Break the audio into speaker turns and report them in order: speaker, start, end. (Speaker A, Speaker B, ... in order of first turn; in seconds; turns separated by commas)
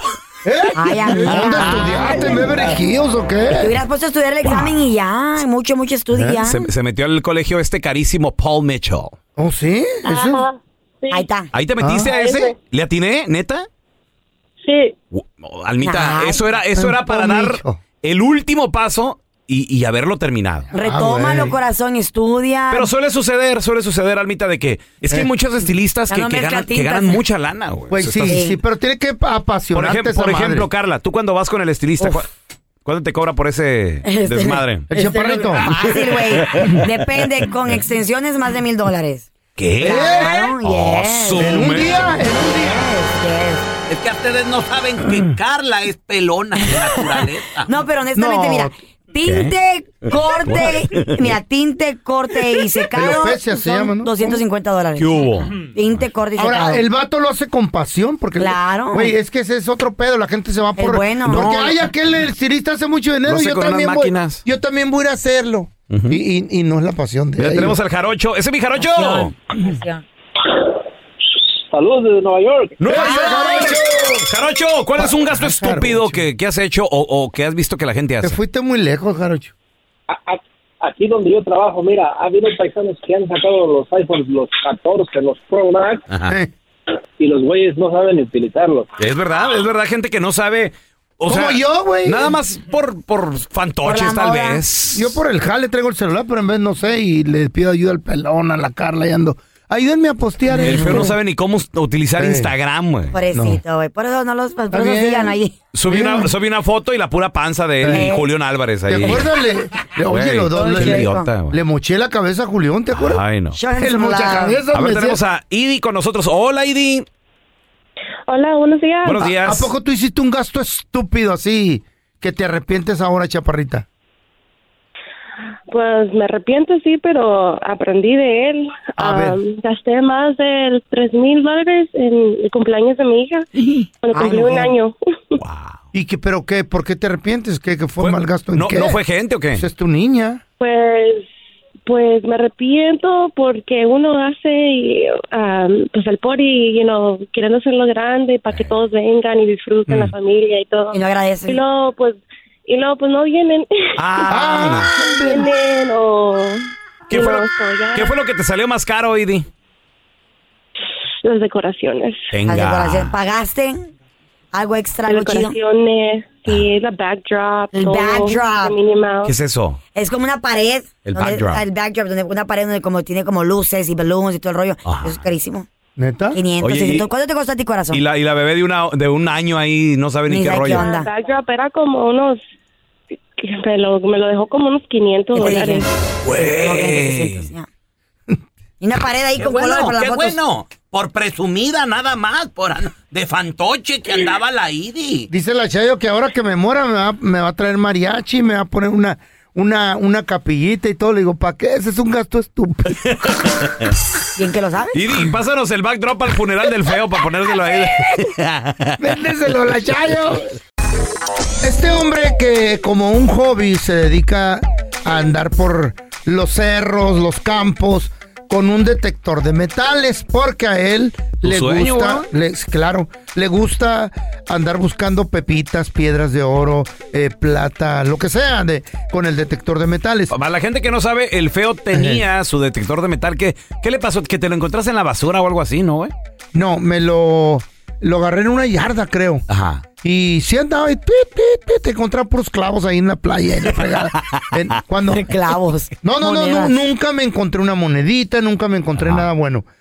Speaker A: 0.5-3.7, Speaker B: 0.8-2.4, Speaker C: 1.3-2.0, Speaker B: 3.5-6.7, Speaker A: 6.1-6.4, Speaker C: 6.5-9.2, Speaker A: 9.4-10.5, Speaker D: 10.1-11.3, Speaker B: 11.1-11.5, Speaker C: 11.5-13.7, Speaker A: 11.8-12.1, Speaker D: 12.1-12.6, Speaker D: 14.6-14.9, Speaker C: 15.1-20.7, Speaker B: 15.8-16.4, Speaker A: 16.8-17.8, Speaker B: 20.7-22.9, Speaker A: 20.7-21.6, Speaker C: 22.7-28.4, Speaker B: 26.1-27.2, Speaker A: 27.9-30.7, Speaker B: 28.3-28.6, Speaker C: 29.7-32.3, Speaker C: 32.9-34.9, Speaker B: 34.0-39.3, Speaker A: 34.9-35.7, Speaker C: 35.6-36.8, Speaker C: 39.6-42.1, Speaker B: 39.8-43.7, Speaker A: 39.8-40.5, Speaker A: 41.4-42.9, Speaker C: 43.9-47.7, Speaker B: 47.2-56.8, Speaker A: 48.1-48.7, Speaker C: 49.2-49.5, Speaker C: 50.1-51.3, Speaker A: 52.9-54.4, Speaker C: 55.0-55.6, Speaker A: 56.4-67.8, Speaker B: 58.4-59.1, Speaker B: 60.8-61.5, Speaker C: 61.3-61.9, Speaker C: 63.3-64.4, Speaker C: 65.9-66.2, Speaker C: 67.4-69.3, Speaker B: 68.8-70.0, Speaker E: 71.7-72.8, Speaker C: 72.8-78.4, Speaker A: 72.9-74.3, Speaker B: 73.0-73.3, Speaker A: 75.0-76.3, Speaker A: 78.2-79.5, Speaker E: 80.1-86.0, Speaker C: 86.1-86.3, Speaker E: 87.2-88.9, Speaker C: 89.0-95.2, Speaker A: 91.3-92.3, Speaker B: 93.8-94.6, Speaker A: 94.9-101.1, Speaker B: 100.5-101.1, Speaker C: 100.6-103.2, Speaker A: 102.2-102.5, Speaker B: 103.1-105.5, Speaker A: 103.3-103.6, Speaker A: 104.7-105.3, Speaker C: 105.7-109.3, Speaker A: 105.9-106.3, Speaker A: 107.8-108.1, Speaker B: 107.9-108.3, Speaker A: 108.9-113.2, Speaker C: 110.1-111.6, Speaker B: 110.5-111.3, Speaker C: 112.9-113.6, Speaker B: 113.5-114.6, Speaker A: 113.8-115.2, Speaker C: 114.7-117.1, Speaker D: 118.3-119.3, Speaker C: 119.0-119.7, Speaker A: 119.4-123.9, Speaker D: 125.7-133.5, Speaker A: 129.0-129.4, Speaker D: 134.0-135.4, Speaker B: 134.1-134.7, Speaker C: 135.4-135.8, Speaker A: 135.9-139.0, Speaker C: 138.0-139.7, Speaker A: 139.6-140.4, Speaker D: 140.6-141.3, Speaker D: 141.9-158.1, Speaker B: 150.9-151.6, Speaker C: 154.0-154.9, Speaker A: 154.3-155.5, Speaker C: 157.1-159.5, Speaker D: 161.2-162.3, Speaker C: 162.3-163.1, Speaker B: 162.5-163.9, Speaker B: 164.5-165.6, Speaker D: 165.1-169.3, Speaker B: 167.7-168.7, Speaker C: 169.2-169.8, Speaker B: 169.9-175.7, Speaker C: 171.1-171.6, Speaker C: 174.8-175.2, Speaker A: 176.0-176.4, Speaker B: 176.3-178.0, Speaker C: 176.6-177.1, Speaker C: 177.9-180.9, Speaker B: 180.3-181.1, Speaker D: 180.7-182.4, Speaker D: 183.4-185.9, Speaker B: 185.3-187.7, Speaker C: 186.2-187.5, Speaker B: 188.8-190.4, Speaker C: 189.4-195.3, Speaker A: 195.3-203.0, Speaker C: 203.1-203.9, Speaker B: 204.4-205.0, Speaker C: 204.9-209.0, Speaker A: 209.0-210.5, Speaker A: 211.6-230.3, Speaker C: 221.4-222.3, Speaker C: 230.3-236.1, Speaker A: 231.9-232.2, Speaker A: 236.5-239.5, Speaker C: 239.5-239.8, Speaker A: 240.0-245.3, Speaker B: 245.1-246.8, Speaker A: 246.0-249.7, Speaker C: 249.0-249.3